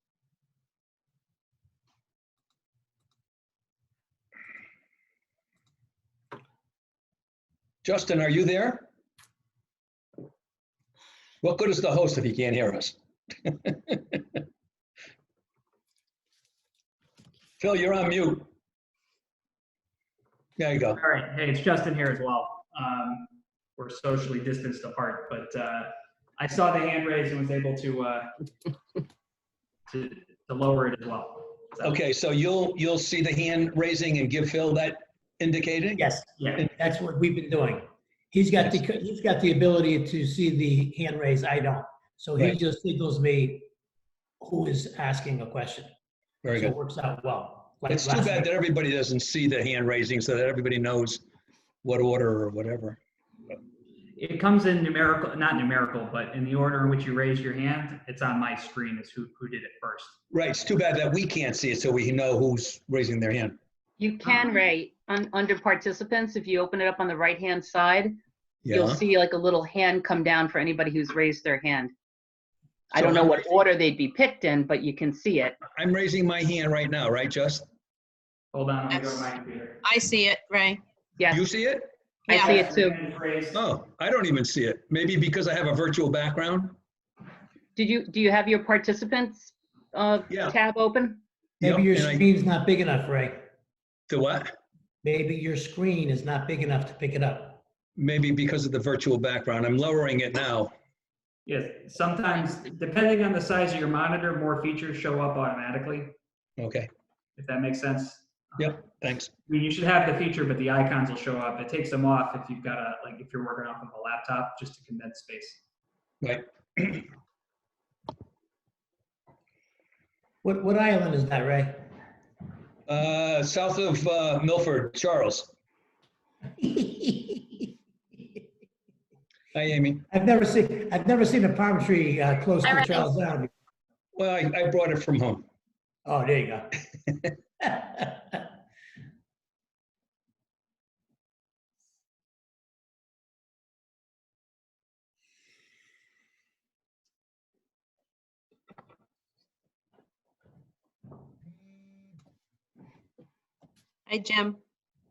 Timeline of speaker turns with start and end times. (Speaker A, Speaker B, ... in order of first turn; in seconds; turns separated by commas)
Speaker A: 7.8-8.9, Speaker A: 11.4-14.2, Speaker A: 17.6-18.5, Speaker A: 20.6-21.0, Speaker B: 21.0-28.2, Speaker B: 29.9-31.9, Speaker A: 31.8-36.0, Speaker C: 36.0-43.7, Speaker C: 44.4-45.9, Speaker A: 46.4-46.8, Speaker C: 46.6-48.5, Speaker A: 47.9-51.2, Speaker A: 51.8-53.0, Speaker B: 54.2-60.1, Speaker A: 60.3-63.6, Speaker D: 64.0-68.2, Speaker A: 68.7-69.0, Speaker D: 68.7-71.9, Speaker D: 72.9-75.6, Speaker A: 72.9-73.4, Speaker A: 75.8-77.7, Speaker B: 78.5-79.8, Speaker E: 78.9-80.8, Speaker D: 81.2-81.4, Speaker A: 81.3-81.9, Speaker D: 82.3-83.0, Speaker B: 82.3-83.6, Speaker A: 83.5-86.8, Speaker D: 87.8-91.2, Speaker A: 90.3-90.6, Speaker A: 91.6-92.2, Speaker C: 91.6-93.4, Speaker A: 94.1-94.5, Speaker C: 95.0-97.6, Speaker A: 98.0-100.7, Speaker B: 101.5-106.1, Speaker A: 106.6-106.9, Speaker B: 107.4-108.2, Speaker A: 108.6-109.3, Speaker B: 109.5-115.6, Speaker A: 116.2-117.1, Speaker C: 120.4-121.8, Speaker A: 122.9-125.5, Speaker C: 126.6-127.6, Speaker A: 129.5-130.1, Speaker C: 130.1-133.5, Speaker D: 132.7-133.1, Speaker A: 134.2-135.4, Speaker C: 136.1-136.8, Speaker C: 137.6-138.1, Speaker E: 154.1-154.6